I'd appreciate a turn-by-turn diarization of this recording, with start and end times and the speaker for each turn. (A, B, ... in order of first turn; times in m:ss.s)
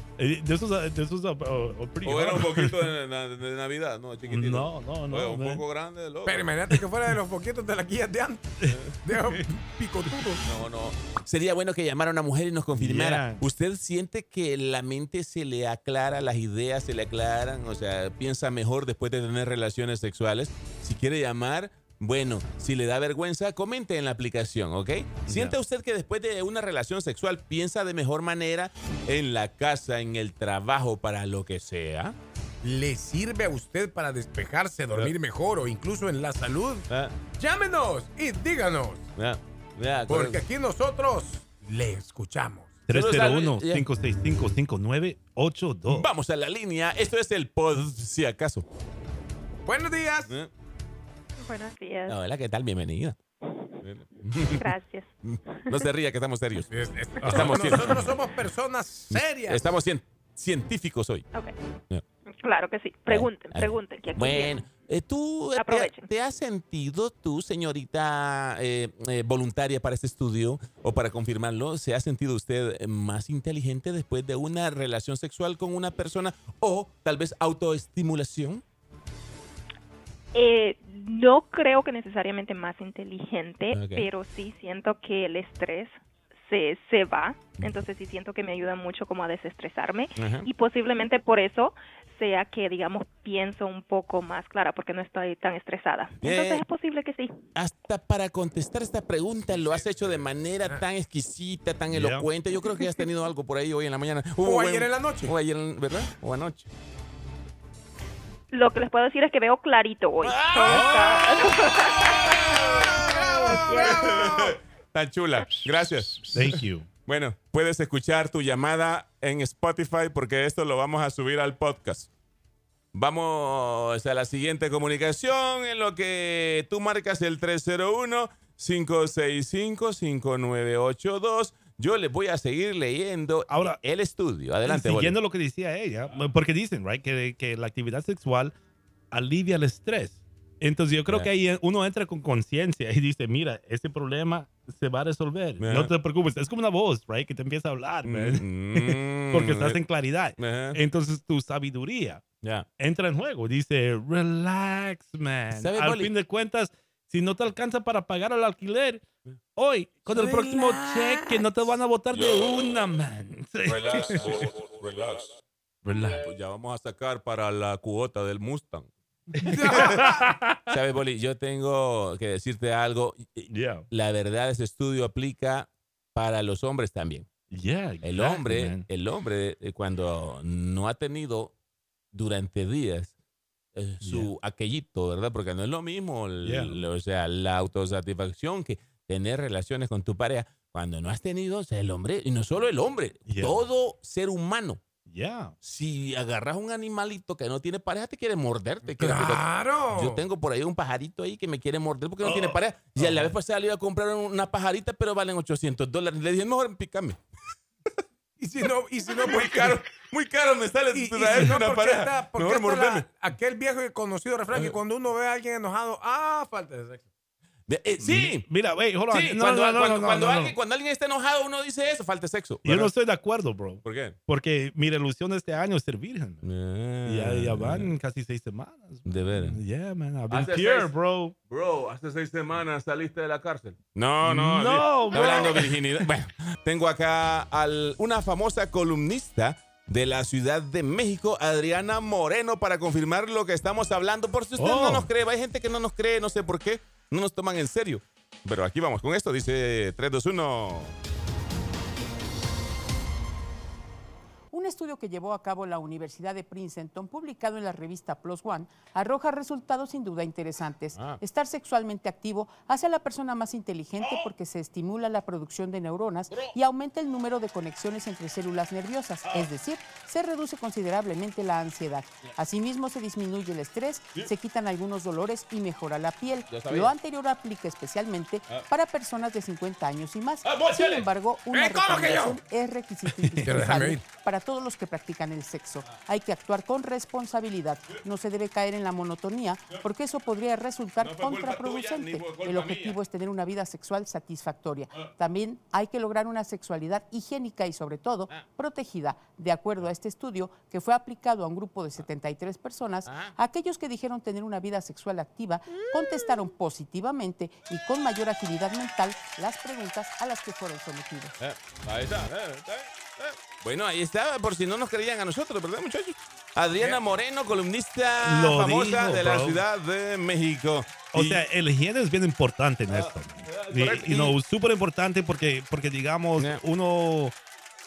0:00.2-0:02.9 A
0:02.0-0:06.5 B
0:04.2-0:05.6 A
0:06.2-0:10.4 C
0:08.6-0:09.5 A
0:08.7-0:09.0 B
0:10.4-0:32.2 B
0:12.7-0:13.4 A
0:25.3-0:25.6 A
0:32.6-0:39.0 C
0:36.9-0:37.2 B
0:39.2-0:40.4 B
0:40.1-0:42.7 C
0:42.9-0:46.1 A
0:42.9-0:43.9 B
0:45.9-0:48.7 B
0:49.6-0:50.3 C
0:51.4-0:52.2 D
0:52.1-0:53.2 B
0:53.8-0:56.7 B
0:54.5-0:55.9 D
0:56.7-0:59.7 C
0:57.2-0:58.1 B
0:57.2-0:57.9 A
0:59.1-1:01.2 B
1:02.3-1:04.6 D
1:03.1-1:18.6 B
1:05.6-1:06.1 D
1:20.3-1:37.4 D
1:23.7-1:24.1 B
1:30.2-1:30.5 B
1:36.2-1:36.6 B
1:37.6-1:46.7 B
1:41.9-1:42.3 A
1:44.4-1:45.3 C
1:48.5-1:52.4 D
1:50.2-1:56.5 B
1:50.6-1:51.3 A
1:52.9-1:54.5 C
1:53.6-1:54.2 D
1:56.3-1:56.9 A
1:57.1-2:02.1 B
2:02.9-2:15.2 B
2:13.5-2:13.8 A
2:14.6-2:18.5 A
2:19.1-2:32.2 A
2:25.6-2:25.9 B
2:28.0-2:29.8 B
2:30.4-2:30.8 B
2:32.4-2:32.7 B
2:32.8-2:39.0 A
2:35.5-2:36.1 B
2:39.6-2:44.5 A
2:40.1-2:42.6 B
2:43.6-2:45.3 B
2:45.8-2:46.2 A
2:46.2-2:48.9 B
2:49.4-2:50.8 A
2:49.4-2:50.3 C
2:49.7-2:50.1 B
2:50.7-2:57.3 B
2:53.5-2:53.9 A
2:57.5-2:58.8 A
2:58.0-3:01.5 B
3:02.1-3:03.1 B
3:03.8-3:14.8 B
3:04.0-3:04.3 A
3:06.4-3:06.8 A
3:13.3-3:13.6 A
3:15.0-3:15.6 A
3:15.6-3:27.2 B
3:19.0-3:20.2 C
3:22.2-3:23.3 A
3:28.4-3:29.8 C
3:29.2-3:33.1 B
3:30.9-3:37.0 C
3:37.7-3:38.4 B
3:38.0-3:40.6 A
3:39.1-3:42.9 B
3:42.6-3:46.4 A
3:43.8-3:44.2 B
3:46.4-3:47.9 B
3:47.0-3:51.3 A
3:49.0-3:49.6 B
3:50.3-3:50.9 B
3:51.5-4:10.9 B
3:54.2-3:55.8 A
4:04.6-4:05.1 A
4:14.5-5:11.4 E
4:20.9-4:21.2 B
4:24.0-4:24.3 B
4:26.3-4:26.6 B
4:29.2-4:29.5 B
4:36.5-4:36.9 B
4:40.4-4:41.0 B
4:41.5-4:42.4 C
4:43.1-4:43.5 A
4:43.4-4:44.0 C
4:51.0-4:53.0 B
5:03.0-5:03.4 B
5:11.4-5:21.4 B
5:16.8-5:17.2 C
5:18.2-5:19.6 A
5:21.1-5:27.3 A
5:22.9-5:24.4 B
5:26.4-5:26.6 B